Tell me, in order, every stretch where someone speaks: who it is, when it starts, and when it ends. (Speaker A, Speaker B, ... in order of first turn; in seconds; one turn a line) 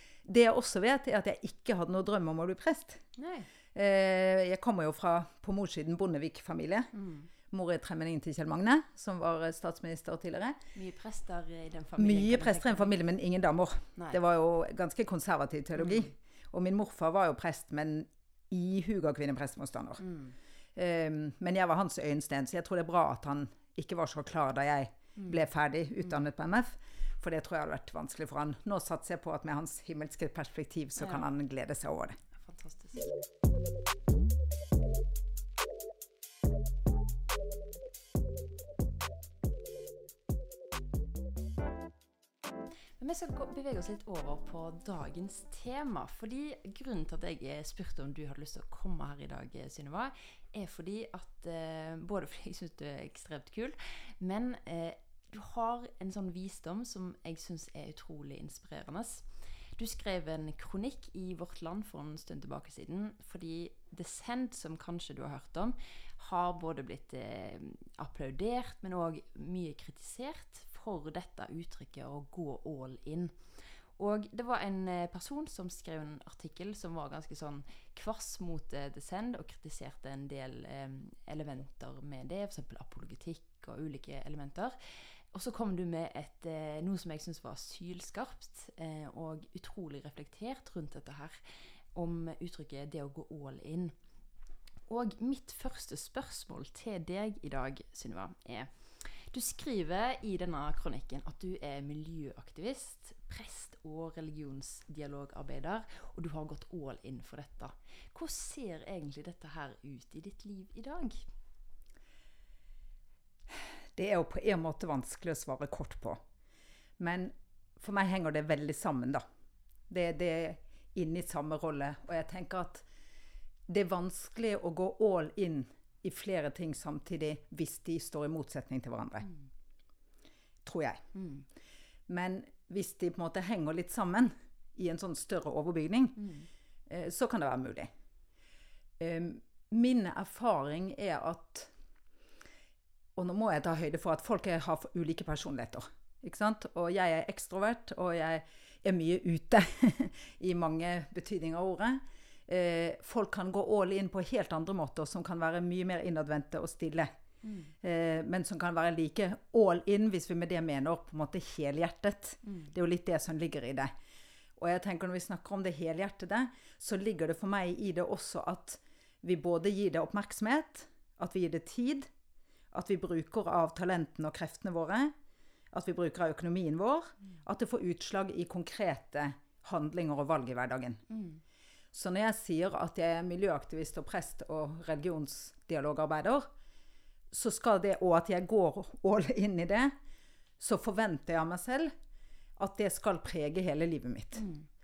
Speaker A: 0.2-3.0
Speaker B: 3.1-3.5
Speaker A: 3.7-6.9
Speaker B: 6.9-7.3
Speaker A: 7.5-10.6
Speaker B: 10.7-12.9
Speaker A: 12.0-20.0
Speaker B: 15.8-16.1
Speaker B: 20.0-20.3
Speaker A: 20.8-32.2
Speaker B: 25.2-25.4
Speaker B: 31.0-31.2
Speaker B: 32.3-33.1
Speaker B: 43.0-73.4
Speaker B: 74.0-84.8
Speaker B: 85.3-91.4
Speaker B: 91.9-93.9
Speaker B: 94.9-111.2
Speaker A: 113.5-116.2
Speaker A: 117.0-119.2
Speaker A: 119.9-122.8
Speaker A: 123.7-129.3
Speaker A: 130.6-131.0
Speaker B: 131.1-131.4
Speaker A: 132.1-136.2
Speaker B: 136.2-136.5
Speaker A: 136.9-137.9
Speaker A: 139.0-141.7
Speaker A: 143.2-157.1
Speaker B: 157.4-157.7
Speaker A: 157.8-163.9
Speaker B: 162.4-162.7
Speaker A: 164.6-172.1
Speaker A: 172.7-175.1
Speaker A: 175.7-181.0
Speaker B: 181.1-181.4
Speaker A: 181.9-186.5
Speaker A: 187.3-189.9
Speaker A: 190.6-191.9
Speaker A: 192.6-194.4
Speaker B: 194.3-194.7